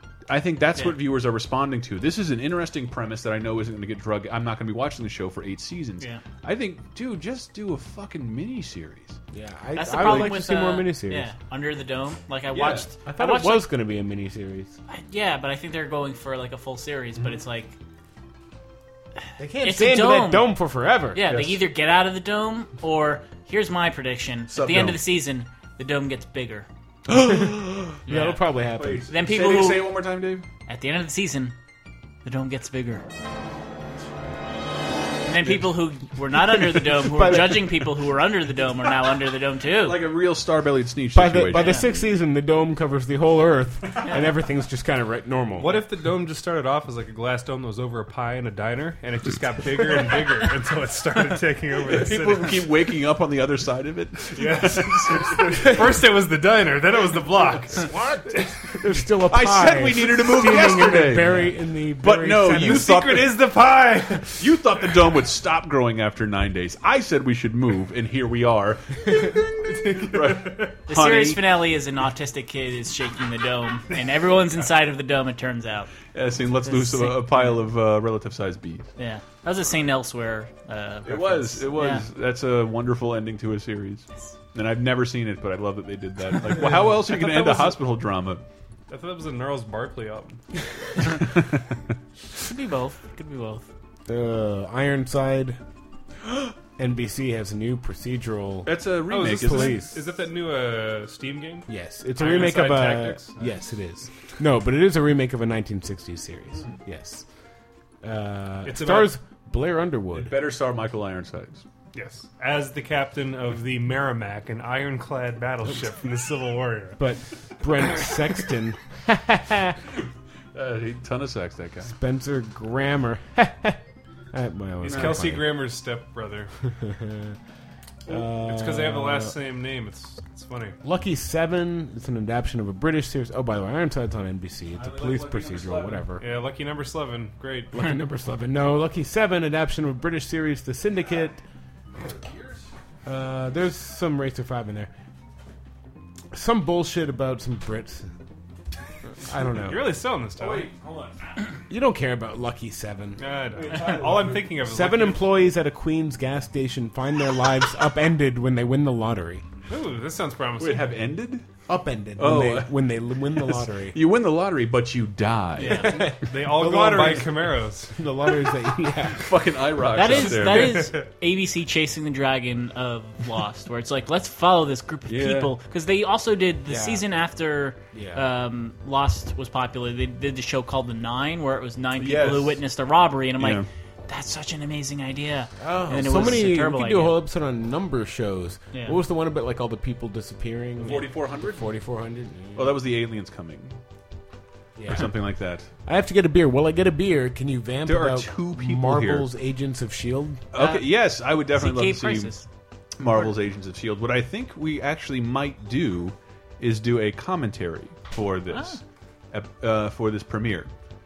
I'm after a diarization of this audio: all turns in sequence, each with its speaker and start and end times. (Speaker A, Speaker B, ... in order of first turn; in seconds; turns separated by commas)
Speaker A: 0.3-9.2, Speaker B: 9.3-11.3, Speaker C: 9.8-13.7, Speaker A: 10.0-10.3, Speaker A: 12.5-12.9, Speaker B: 13.1-14.8, Speaker C: 14.9-17.8, Speaker B: 19.4-21.3, Speaker C: 19.6-20.6, Speaker C: 21.1-26.7, Speaker A: 21.2-21.6, Speaker A: 24.5-25.0, Speaker B: 27.1-29.1, Speaker A: 27.1-27.6, Speaker C: 28.1-28.4, Speaker A: 28.7-30.5, Speaker C: 29.1-30.0, Speaker C: 30.7-31.6, Speaker C: 32.2-33.1, Speaker C: 35.2-40.1, Speaker A: 35.4-35.7, Speaker B: 36.9-37.8, Speaker A: 39.8-42.0, Speaker B: 41.1-45.9, Speaker C: 41.5-41.9, Speaker D: 45.6-52.7, Speaker A: 51.8-55.9, Speaker D: 54.3-58.4, Speaker B: 55.5-55.8, Speaker B: 57.8-63.0, Speaker A: 59.3-63.4, Speaker D: 62.5-64.6, Speaker A: 64.4-71.5, Speaker C: 70.9-76.0, Speaker A: 76.1-78.9, Speaker C: 76.6-77.6, Speaker C: 79.0-82.1, Speaker A: 81.0-88.4, Speaker D: 87.0-87.8, Speaker D: 88.9-90.4, Speaker A: 91.0-91.6, Speaker C: 92.4-93.7, Speaker B: 94.1-95.6, Speaker B: 96.8-100.0, Speaker A: 98.7-99.8, Speaker D: 99.1-103.4, Speaker B: 101.7-107.3, Speaker B: 108.0-110.4, Speaker D: 108.7-109.1, Speaker A: 110.1-111.7, Speaker D: 111.9-117.0, Speaker B: 117.0-119.8, Speaker A: 120.5-121.9, Speaker B: 121.8-123.8, Speaker B: 124.3-125.6, Speaker D: 124.8-126.5, Speaker A: 124.8-125.4, Speaker B: 126.7-127.4, Speaker B: 128.1-129.4, Speaker D: 128.3-130.8, Speaker B: 130.8-136.3, Speaker A: 134.7-136.1, Speaker D: 136.2-137.9, Speaker B: 137.7-141.4, Speaker A: 141.9-142.7, Speaker B: 143.1-144.9, Speaker B: 146.3-148.1, Speaker B: 149.2-150.0, Speaker D: 149.6-150.7, Speaker A: 150.4-151.5, Speaker B: 151.7-159.5, Speaker D: 153.2-155.2, Speaker A: 153.6-154.4, Speaker D: 159.7-161.0, Speaker A: 160.6-161.5, Speaker B: 161.7-164.0, Speaker A: 162.2-166.2, Speaker C: 165.6-166.0, Speaker B: 165.6-169.3, Speaker D: 166.1-168.0, Speaker A: 169.1-170.9, Speaker C: 169.9-187.2, Speaker D: 170.1-171.0, Speaker A: 175.1-175.6, Speaker B: 176.7-177.1, Speaker B: 177.9-178.3, Speaker A: 182.0-182.6, Speaker A: 183.4-183.7, Speaker B: 185.6-192.8, Speaker C: 188.7-189.0, Speaker A: 190.8-191.7, Speaker A: 192.6-193.8, Speaker B: 194.8-195.3, Speaker A: 194.9-195.7, Speaker B: 195.8-200.5, Speaker A: 197.8-199.3, Speaker A: 200.5-202.4, Speaker C: 200.6-200.9, Speaker C: 201.5-202.5, Speaker A: 203.0-210.7, Speaker C: 208.5-208.8